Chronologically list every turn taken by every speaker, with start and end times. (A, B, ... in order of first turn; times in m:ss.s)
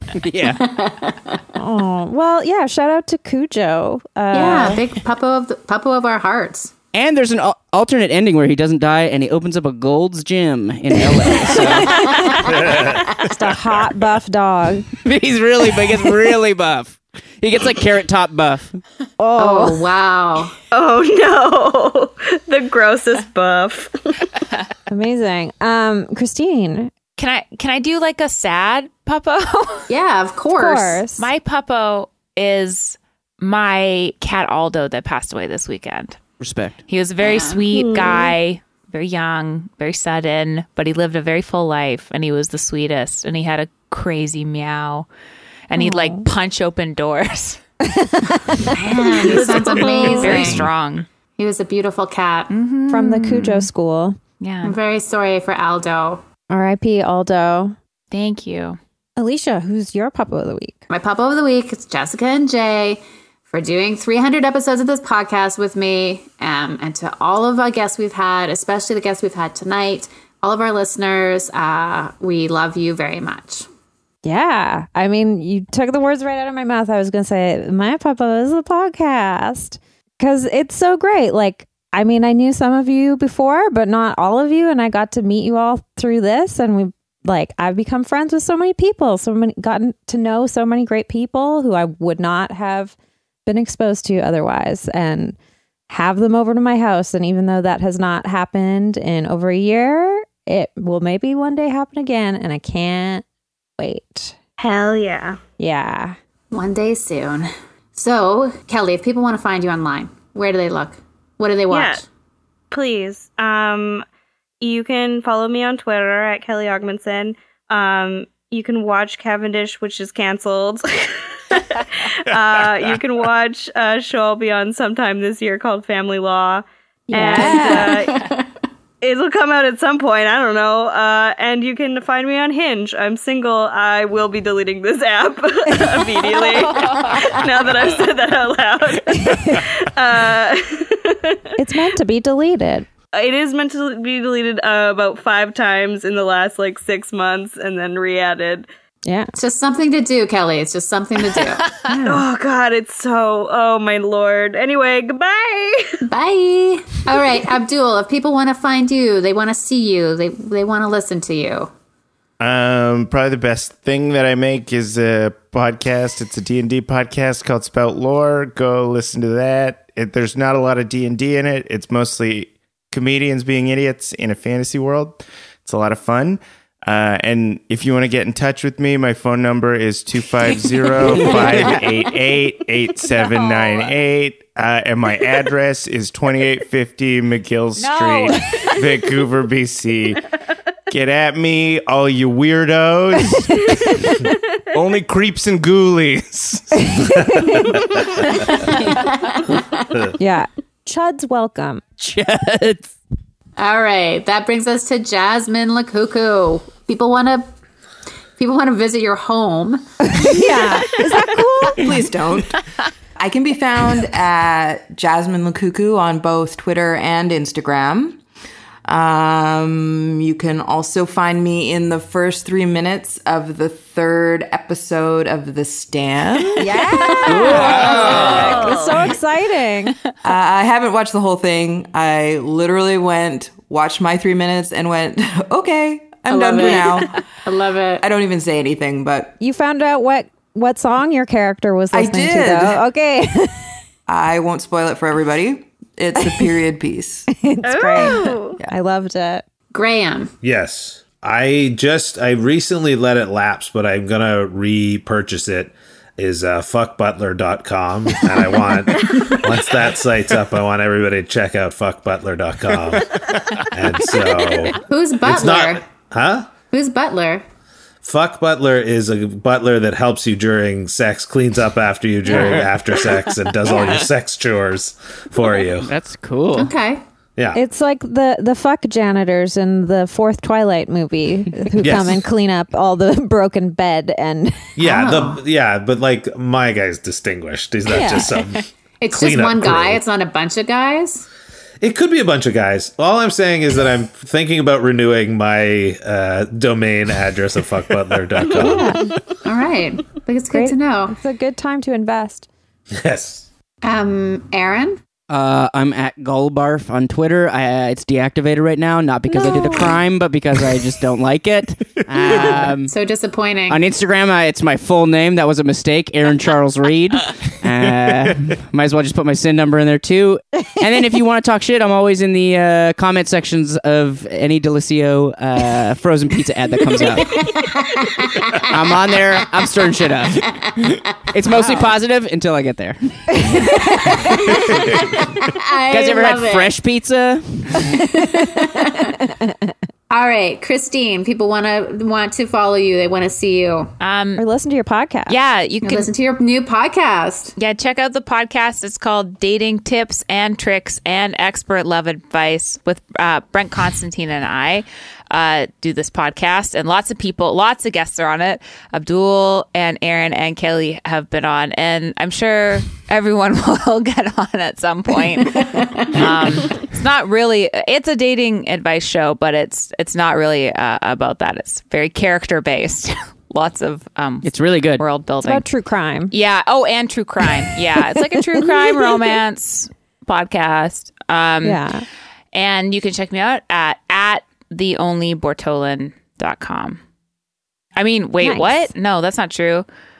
0:00.2-0:00.7 A
0:00.6-0:01.4 B
0:01.6-0:04.8 C
0:04.3-0:06.7 B
0:06.9-0:12.1 A
0:11.5-0:11.9 C
0:12.4-0:13.1 D
0:13.2-0:14.9 C
0:15.0-0:18.8 A
0:19.2-0:19.8 C
0:19.4-0:20.5 B
0:20.7-0:24.2 E
0:24.9-0:26.9 C
0:27.2-0:29.8 F
0:29.9-0:31.0 B
0:30.5-0:31.3 C
0:31.2-0:36.2 F
0:36.4-0:36.8 A
0:36.9-0:45.1 F
0:37.7-0:38.3 E
0:45.7-0:47.6 F
0:45.7-0:46.3 C
0:48.7-0:50.7 B
0:48.8-0:51.1 F
0:49.3-0:50.5 E
0:51.4-0:52.5 B
0:52.5-0:53.7 F
0:52.9-0:54.2 C
0:54.4-0:54.8 F
0:54.6-0:56.2 B
0:56.5-0:57.8 C
0:58.1-0:58.8 F
0:59.2-1:00.8 C
1:00.9-1:13.7 B
1:14.2-1:32.9 C
1:33.4-1:35.4 C
1:35.9-1:43.2 C
1:43.8-1:44.4 C
1:44.6-1:45.4 E
1:45.6-1:46.2 C
1:46.5-1:52.0 B
1:51.7-1:52.0 E
1:52.7-1:54.0 E
1:54.6-2:08.3 E
2:07.1-2:08.1 C
2:07.3-2:08.4 B
2:09.0-2:21.5 E
2:16.8-2:17.2 F
2:21.6-2:22.9 C
2:23.1-2:28.7 E
2:29.0-2:29.3 C
2:29.3-2:31.7 B
2:31.9-2:32.2 C
2:32.0-2:36.0 E
2:36.0-2:41.7 B
2:42.4-3:10.2 G
3:01.0-3:01.8 A
3:07.8-3:08.4 F
3:10.9-3:14.0 G
3:14.7-3:16.9 G
3:16.9-3:17.7 C
3:18.7-3:19.8 B
3:20.2-3:21.8 C
3:22.0-3:22.9 A
3:23.6-3:27.5 B
3:28.4-3:29.8 B
3:30.1-3:31.9 C
3:31.7-3:32.6 H
3:33.2-3:38.2 H
3:38.8-3:48.7 H
3:46.6-3:50.0 C
3:47.2-3:47.7 A
3:47.3-3:48.5 F
3:47.6-3:49.1 E
3:50.2-3:57.2 H
3:56.3-3:58.0 B
3:58.0-3:59.4 H
3:59.4-4:03.7 C
4:01.9-4:02.8 H
4:04.1-4:07.3 H
4:06.2-4:06.6 C
4:07.3-4:09.4 C
4:07.6-4:08.6 E
4:09.7-4:10.3 B
4:10.4-4:23.1 D
4:23.7-4:26.5 D
4:24.8-4:25.8 B
4:26.7-4:27.4 B
4:28.0-4:35.9 D
4:32.3-4:32.7 A
4:35.8-4:36.7 A
4:36.5-4:37.0 B
4:37.5-4:44.7 C
4:41.8-4:42.2 D
4:44.8-4:50.0 D
4:44.8-4:45.4 B
4:47.9-4:48.4 C
4:49.0-4:51.2 B
4:51.8-4:59.1 D
4:58.5-4:59.1 C
4:58.6-4:59.1 E
4:59.4-5:01.2 B
5:00.5-5:02.5 C
5:02.9-5:03.5 D
5:03.8-5:05.0 B
5:05.3-5:12.9 A
5:12.8-5:13.8 B
5:13.7-5:27.5 A
5:27.2-5:28.7 B
5:28.7-5:30.4 A
5:31.3-5:33.3 A
5:33.4-5:34.2 C
5:34.0-5:36.7 B
5:35.9-5:37.9 A
5:37.9-5:39.2 B
5:40.1-5:43.9 B
5:44.0-5:44.4 F
5:44.4-5:45.4 C
5:45.3-5:46.1 F
5:45.8-5:47.5 B
5:47.6-6:15.6 F
6:05.5-6:06.2 B
6:14.4-6:15.0 A
6:15.4-6:16.3 C
6:16.3-6:21.8 F
6:18.1-6:19.4 C
6:21.6-6:22.0 C
6:22.5-6:27.0 F
6:28.0-6:29.8 F
6:28.4-6:28.9 C